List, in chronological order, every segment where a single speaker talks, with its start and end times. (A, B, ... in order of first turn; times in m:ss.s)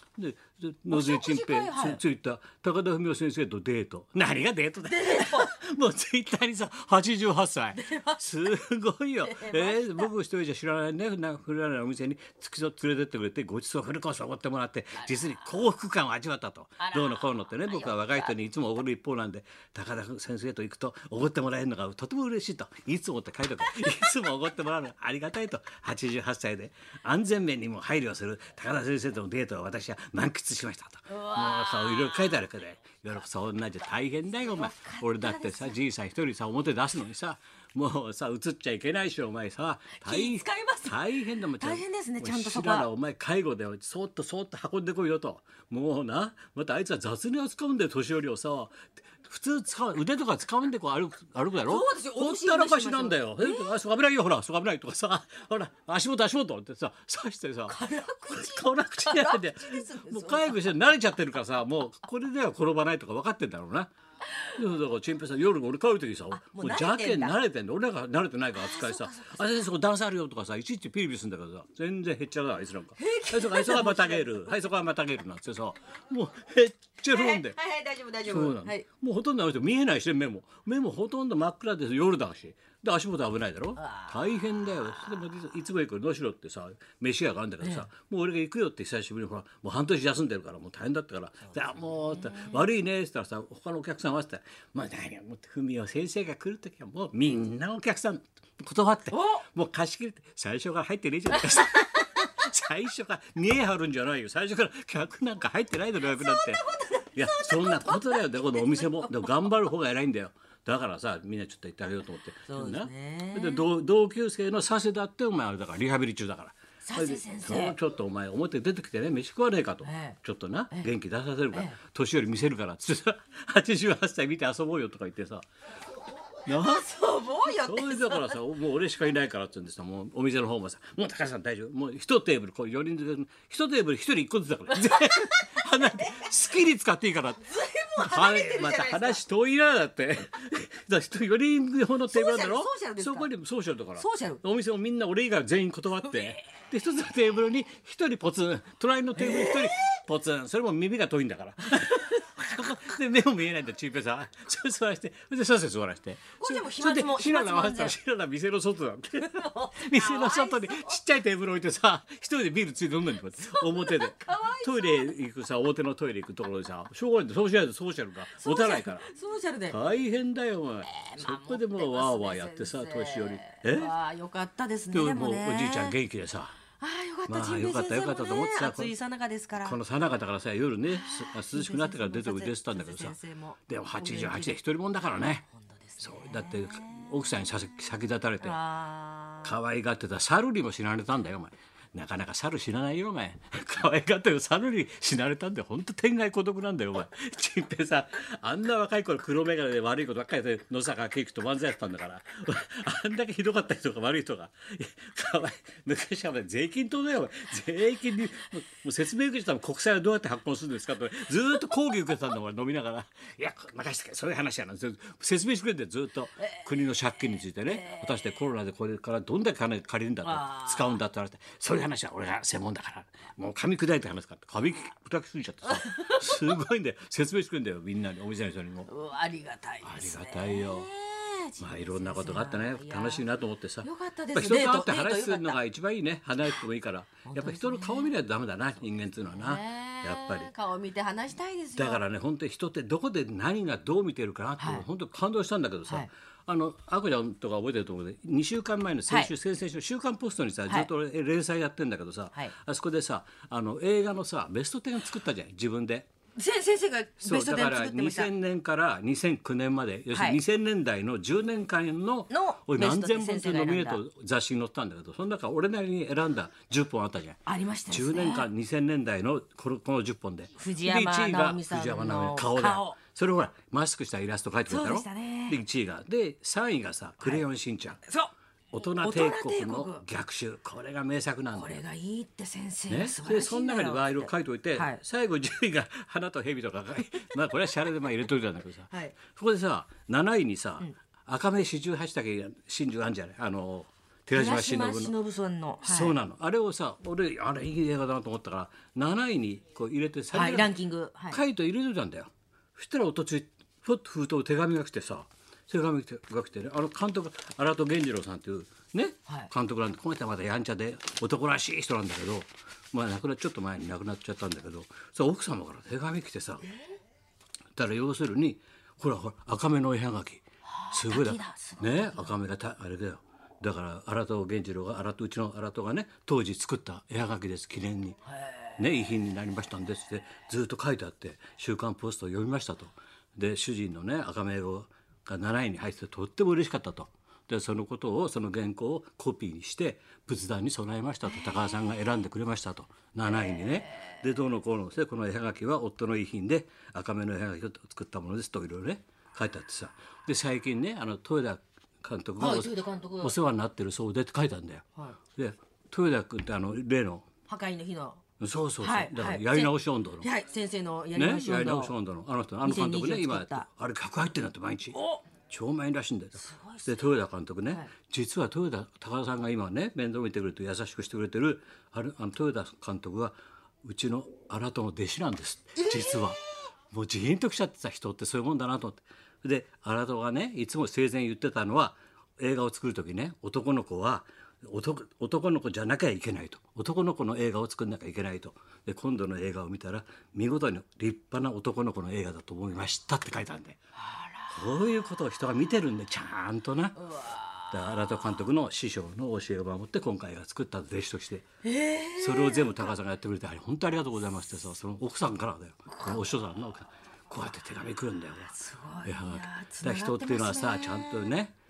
0:00.2-1:03.9 A
0:00.9-0:02.0 B
0:04.8-0:05.5 B
0:07.8-0:08.2 B
0:09.2-0:10.1 B
0:15.1-0:15.4 B
0:16.8-0:18.3 B
0:31.1-0:32.4 B
0:34.5-0:35.8 B
0:40.0-0:41.1 B
0:41.6-0:42.9 B
0:51.6-0:53.7 B
0:57.7-1:00.8 B
1:04.6-1:17.6 A
1:06.3-1:07.4 B
1:08.5-1:09.6 B
1:13.0-1:14.5 B
1:17.1-1:18.8 B
1:18.2-2:05.5 A
1:23.8-1:25.2 B
1:32.1-1:32.6 B
1:39.1-1:39.4 B
1:46.0-1:49.4 B
1:52.5-1:53.7 B
1:56.8-1:57.8 B
1:59.8-2:00.2 B
2:06.5-2:06.9 A
2:06.5-2:08.4 B
2:07.5-2:49.1 A
2:14.8-2:16.3 B
2:17.5-2:19.2 B
2:22.1-2:23.3 B
2:24.0-2:24.4 B
2:26.0-2:26.4 B
2:29.2-2:29.9 B
2:36.4-2:38.0 B
2:39.2-2:41.0 B
2:43.4-2:45.1 B
2:48.4-2:49.8 B
2:49.7-2:53.9 A
2:50.8-2:56.0 B
2:54.9-2:56.6 A
2:56.8-2:59.8 B
2:57.3-2:58.9 A
2:59.6-3:03.2 A
3:00.9-3:04.6 B
3:03.7-3:05.5 A
3:05.9-3:07.3 B
3:06.0-3:08.6 A
3:08.4-3:09.6 B
3:09.4-3:48.9 A
3:37.7-3:38.3 B
3:40.2-3:41.0 B
3:45.7-3:46.6 B
3:48.9-3:53.3 B
3:49.8-3:50.9 A
3:51.6-4:00.5 A
3:53.8-3:55.6 B
3:57.3-3:58.1 B
3:59.3-4:02.0 B
4:01.8-4:16.1 A
4:04.6-4:04.9 B
4:16.4-4:18.3 B
4:17.2-4:38.0 A
4:20.1-4:20.4 B
4:22.3-4:24.0 B
4:27.5-4:28.5 B
4:30.6-4:33.0 B
4:34.7-4:35.6 B
4:38.1-4:38.3 B
4:38.7-4:41.8 A
4:39.0-4:40.0 B
4:41.5-4:45.0 B
4:42.9-4:55.1 A
4:54.3-4:56.2 B
4:55.8-5:00.8 A
5:00.3-5:01.4 B
5:01.3-5:16.6 A
5:17.8-5:28.2 A
5:20.7-5:22.4 B
5:28.3-5:28.7 B
5:28.8-5:57.3 A
5:52.4-5:53.4 B
5:57.5-5:58.2 B
5:58.4-6:00.3 A
5:58.8-6:01.9 B
6:01.2-6:33.8 A
6:02.6-6:03.7 B
6:04.9-6:05.2 B
6:06.4-6:07.0 B
6:15.8-6:16.4 B
6:34.0-6:34.6 B
6:34.5-6:37.1 A
6:37.1-6:38.1 B
6:37.7-6:41.5 A
6:41.6-6:42.9 B
6:42.2-6:51.5 A
6:48.5-6:51.4 B